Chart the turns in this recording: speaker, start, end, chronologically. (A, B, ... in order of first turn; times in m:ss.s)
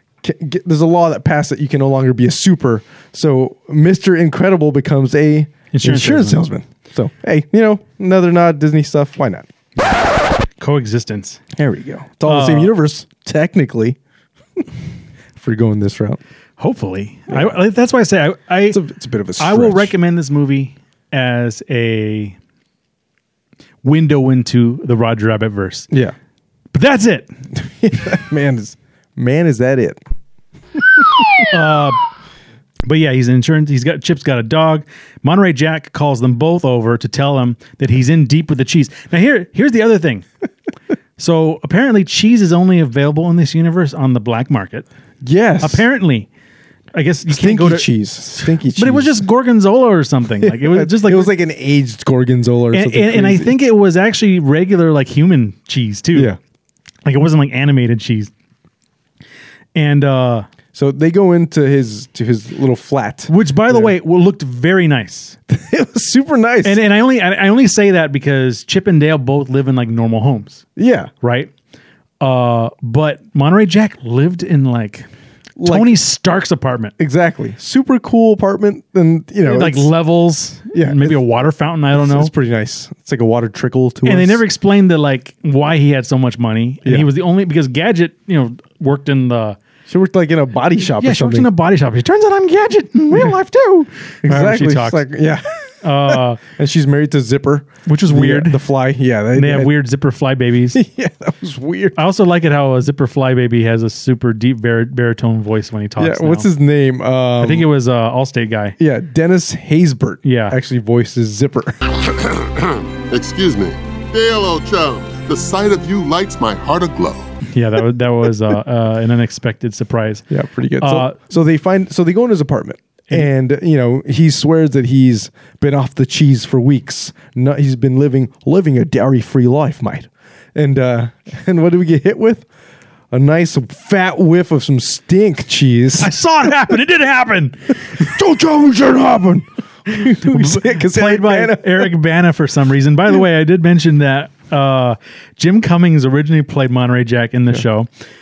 0:00.2-0:09.5 A
0:05.7-0:06.4 B
0:09.8-0:11.4 B
0:11.6-0:14.0 A
0:12.2-0:12.8 B
0:15.3-0:16.2 A
0:16.6-0:18.8 B
0:17.3-0:17.6 A
0:18.7-0:19.9 A
0:19.4-0:22.4 B
0:23.8-0:25.9 B
0:26.7-0:27.3 B
0:27.6-0:30.0 A
0:31.4-0:32.0 B
0:32.8-0:40.2 B
0:41.2-0:44.9 B
0:45.2-0:45.8 A
0:45.6-0:46.3 B
0:46.9-0:51.3 B
0:47.3-0:49.2 A
0:50.4-0:53.6 A
0:52.7-0:56.3 B
0:57.0-0:58.3 B
0:59.7-1:00.5 B
1:00.7-1:03.9 A
1:03.3-1:05.4 B
1:05.5-1:06.8 A
1:06.6-1:10.6 B
1:10.8-1:11.1 A
1:11.2-1:11.5 B
1:12.2-1:15.1 B
1:15.6-1:15.9 A
1:15.6-1:16.9 B
1:17.0-1:19.9 A
1:19.4-1:22.3 B
1:20.7-1:21.2 A
1:21.9-1:24.4 A
1:24.0-1:29.6 B
1:26.8-1:27.1 A
1:29.9-1:31.5 A
1:31.0-1:35.0 B
1:33.1-1:33.4 A
1:34.2-1:39.7 A
1:35.8-1:36.4 B
1:37.8-1:38.6 B
1:39.3-1:40.8 B
1:40.7-1:42.0 A
1:42.0-1:46.5 B
1:46.0-1:47.7 A
1:47.4-1:48.8 B
1:48.8-1:51.8 A
1:50.2-1:50.6 B
1:52.0-1:57.2 C
1:57.5-2:00.2 B
2:00.3-2:12.5 A
2:00.8-2:01.2 B
2:13.1-2:16.1 A
2:16.0-2:17.9 B
2:18.0-2:21.9 A
2:19.9-2:27.9 B